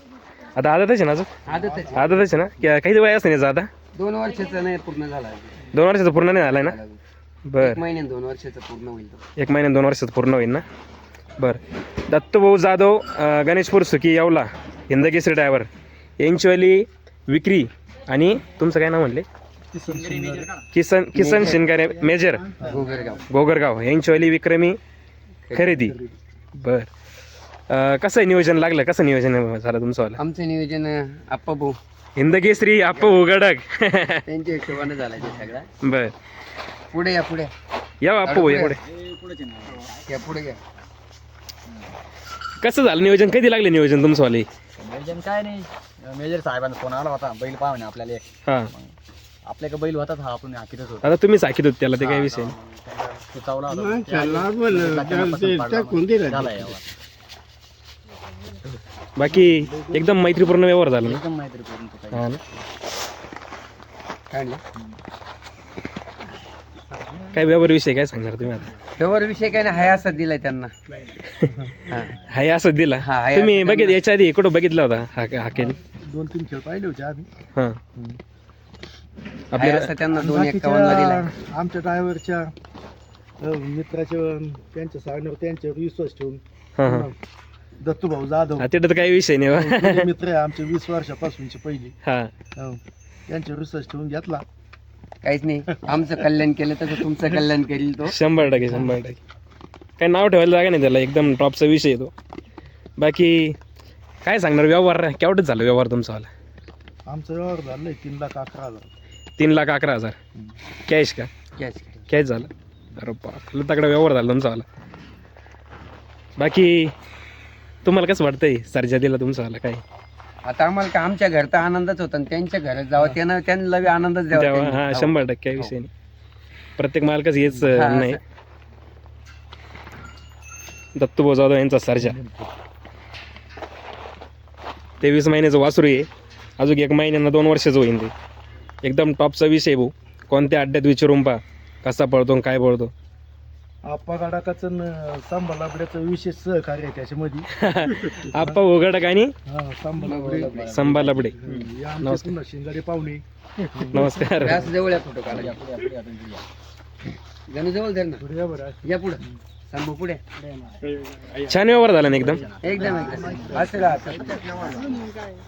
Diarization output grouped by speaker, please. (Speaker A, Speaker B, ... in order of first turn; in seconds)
Speaker A: 0.5-1.3, 1.9-3.7, 5.7-6.8, 7.5-7.8, 9.4-10.6, 11.4-15.7, 16.2-19.3, 20.7-22.4, 23.3-24.8, 25.5-25.9, 26.6-26.9, 27.7-30.2, 32.2-34.2, 35.8-36.1, 38.0-38.8, 42.6-44.5, 51.0-52.5, 58.7-61.2, 62.1-62.4, 67.3-68.7, 72.3-75.8, 79.5-79.9, 86.8-87.1, 88.6-90.0, 92.0-92.3, 98.0-99.2, 100.0-102.1, 103.0-103.6, 104.2-106.3, 109.4-110.2, 110.9-111.3, 112.1-114.6, 116.4-116.9, 117.8-119.8, 124.3-125.9, 126.8-128.2, 130.9-132.2, 135.0-136.1, 136.6-138.1, 138.8-142.9, 147.6-149.3, 150.6-151.3, 152.0-152.3, 153.9-154.6, 161.4-162.5
Speaker B: 1.4-2.2, 3.9-5.5, 6.6-7.0, 7.6-9.2, 21.1-21.6, 22.6-23.2, 25.5-25.9, 30.2-31.8, 32.9-33.2, 34.3-35.7, 36.9-37.5, 38.2-38.8, 39.9-40.6, 64.3-64.6, 69.0-70.7, 71.8-72.1, 73.0-74.0, 79.5-81.2, 95.2-98.2, 111.6-112.0, 120.4-125.2, 127.7-128.2, 150.0-151.1, 154.4-155.6, 157.5-158.2, 158.8-160.2, 162.6-164.9
Speaker C: 1.5-2.3, 19.7-20.5, 21.7-22.8, 25.8-26.2, 59.2-60.2, 75.5-77.3, 80.1-82.5, 83.4-87.1, 87.8-88.7, 89.5-92.0, 92.5-94.4, 98.4-99.0, 107.0-108.9, 132.0-132.5, 143.8-147.5, 148.3-148.6, 149.4-150.7, 151.3-154.7, 158.2-159.4, 162.8-165.1
Speaker D: 19.9-20.6, 22.7-23.2, 38.9-40.1, 44.8-51.2, 52.0-56.8, 61.0-62.4, 150.3-151.7, 155.2-156.4, 162.1-163.7